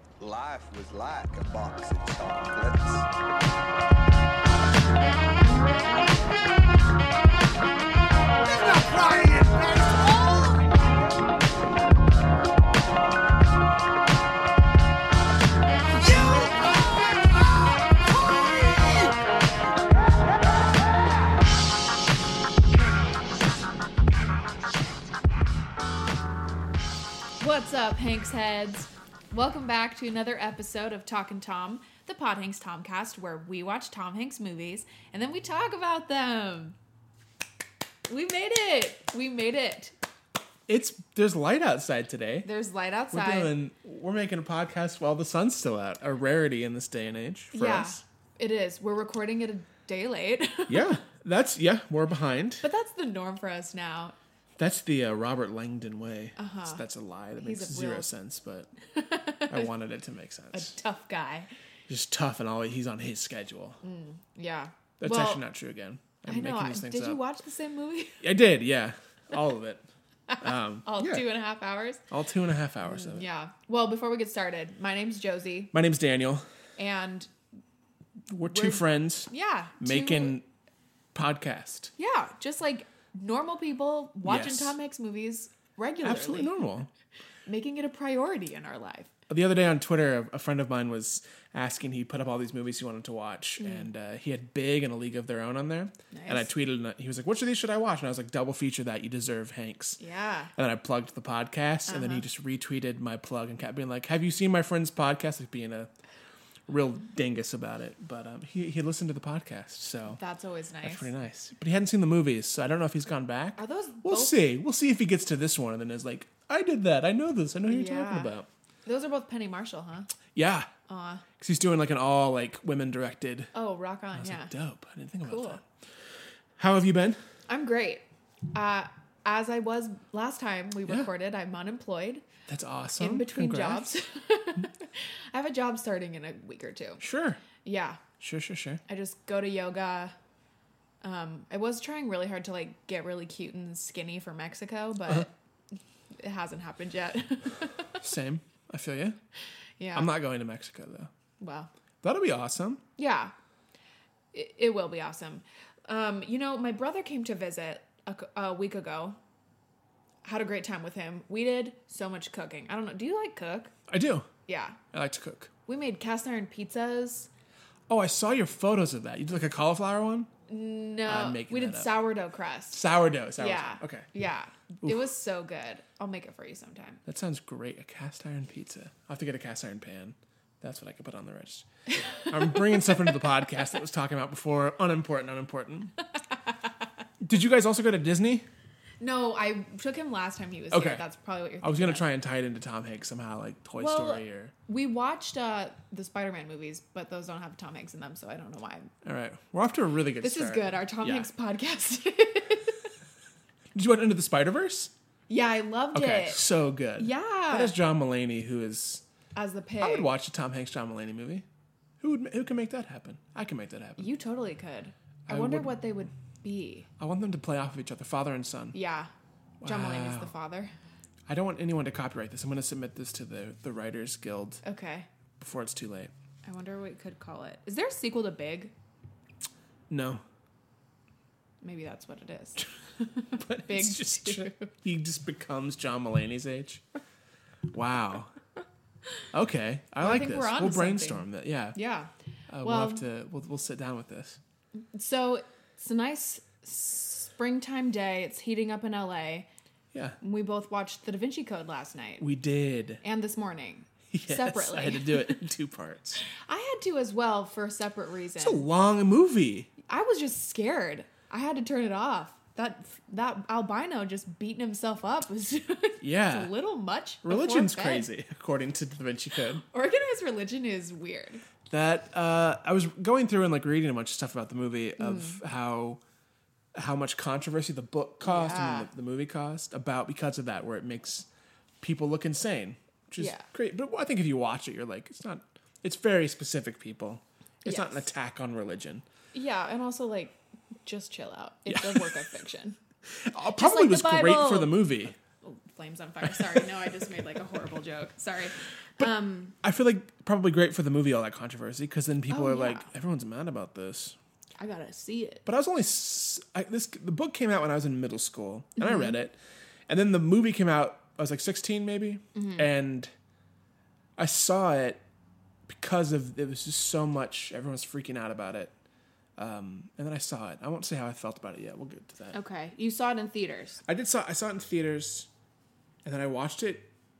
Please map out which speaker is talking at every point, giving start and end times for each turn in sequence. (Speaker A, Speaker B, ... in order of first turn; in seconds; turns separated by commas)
Speaker A: 0.2-3.1, Speaker A: 8.4-10.7, Speaker A: 15.9-19.1, Speaker B: 27.4-36.8, Speaker B: 38.1-39.9, Speaker C: 40.7-42.5, Speaker B: 42.4-43.5, Speaker C: 43.1-48.0, Speaker B: 47.5-51.0, Speaker C: 50.7-52.6, Speaker B: 52.6-54.1, Speaker C: 54.6-58.7, Speaker B: 56.4-56.8, Speaker B: 57.4-58.1, Speaker B: 58.9-59.7, Speaker C: 59.5-60.7, Speaker B: 60.5-61.5, Speaker C: 61.9-63.8, Speaker B: 63.8-65.4, Speaker C: 65.0-67.2, Speaker B: 66.2-68.2, Speaker C: 68.2-69.8, Speaker B: 70.3-72.0, Speaker C: 70.4-71.3, Speaker C: 72.1-73.2, Speaker B: 72.8-75.7, Speaker C: 75.7-76.5, Speaker B: 76.8-77.3, Speaker C: 78.3-80.5, Speaker B: 78.4-80.4, Speaker C: 81.1-81.9, Speaker B: 82.0-86.5, Speaker C: 84.2-84.8, Speaker C: 86.0-86.9, Speaker B: 87.5-89.1, Speaker C: 89.3-100.0, Speaker B: 93.6-93.9, Speaker B: 96.1-96.5, Speaker B: 100.0-100.5, Speaker C: 100.5-105.9, Speaker B: 101.9-102.2, Speaker C: 106.7-110.2, Speaker B: 110.1-111.1, Speaker C: 110.8-118.5, Speaker B: 113.6-114.4, Speaker B: 117.7-118.3, Speaker B: 118.8-120.1, Speaker C: 120.3-120.7, Speaker B: 120.9-121.2, Speaker C: 121.4-123.5, Speaker B: 123.5-124.5, Speaker C: 124.2-125.6, Speaker B: 125.2-125.6, Speaker C: 126.6-127.2, Speaker B: 127.5-132.2, Speaker C: 132.5-133.9, Speaker B: 133.0-137.0, Speaker C: 137.0-137.4, Speaker B: 137.6-138.0, Speaker C: 138.2-138.8, Speaker B: 138.9-140.1, Speaker B: 141.0-145.3, Speaker B: 146.2-148.0, Speaker C: 148.0-149.2, Speaker B: 149.8-150.1, Speaker C: 149.9-151.1, Speaker B: 151.4-151.7, Speaker C: 152.0-152.8, Speaker B: 153.0-153.3, Speaker B: 154.3-159.2, Speaker B: 160.2-163.7, Speaker C: 163.9-164.3, Speaker B: 164.4-164.8, Speaker C: 164.9-165.5, Speaker B: 165.7-167.3, Speaker C: 167.9-170.3, Speaker B: 170.5-172.8, Speaker C: 171.0-171.9, Speaker C: 172.7-174.1, Speaker B: 173.4-177.0, Speaker C: 174.8-175.1, Speaker C: 177.1-181.7, Speaker B: 182.2-182.8, Speaker C: 182.2-185.9, Speaker C: 187.2-188.4, Speaker B: 189.0-192.0, Speaker C: 190.7-191.0, Speaker C: 191.6-194.5, Speaker B: 193.8-198.9, Speaker C: 199.0-201.3, Speaker B: 200.2-202.8, Speaker C: 203.7-204.9, Speaker B: 205.3-206.4, Speaker C: 205.9-209.0, Speaker B: 206.9-207.7, Speaker B: 209.3-210.1, Speaker C: 209.8-211.4, Speaker C: 212.0-214.1, Speaker B: 214.0-216.9, Speaker C: 215.3-215.8, Speaker C: 217.0-218.8, Speaker B: 218.7-219.1, Speaker C: 219.6-220.3, Speaker B: 219.6-220.7, Speaker C: 221.3-224.6, Speaker B: 224.6-225.1, Speaker C: 225.4-226.1, Speaker B: 226.4-228.7, Speaker C: 229.9-230.2, Speaker B: 231.6-234.7, Speaker C: 233.3-236.8, Speaker C: 237.7-238.3, Speaker C: 239.3-241.8, Speaker B: 240.0-243.1, Speaker C: 242.5-244.4, Speaker B: 244.9-249.5, Speaker C: 249.9-250.2, Speaker B: 250.2-252.2, Speaker C: 252.2-253.0, Speaker B: 253.0-255.4, Speaker C: 254.1-256.2, Speaker B: 256.3-258.6, Speaker C: 258.4-259.7, Speaker B: 259.9-268.1, Speaker C: 266.0-266.5, Speaker C: 267.2-269.6, Speaker B: 269.6-271.4, Speaker C: 271.7-276.0, Speaker B: 275.0-275.4, Speaker C: 276.7-281.3, Speaker B: 278.2-278.9, Speaker C: 281.8-289.0, Speaker B: 283.2-283.4, Speaker B: 287.6-288.0, Speaker B: 289.3-292.8, Speaker C: 291.7-292.2, Speaker C: 293.1-295.1, Speaker B: 293.5-294.9, Speaker B: 295.4-299.6, Speaker C: 299.6-304.2, Speaker B: 302.3-302.9, Speaker B: 304.6-305.4, Speaker C: 305.4-309.4, Speaker B: 308.8-309.1, Speaker C: 309.9-313.1, Speaker B: 312.4-312.6, Speaker C: 314.2-315.0, Speaker C: 315.7-318.7, Speaker C: 319.4-322.4, Speaker B: 322.3-323.8, Speaker C: 323.8-325.3, Speaker C: 326.0-326.9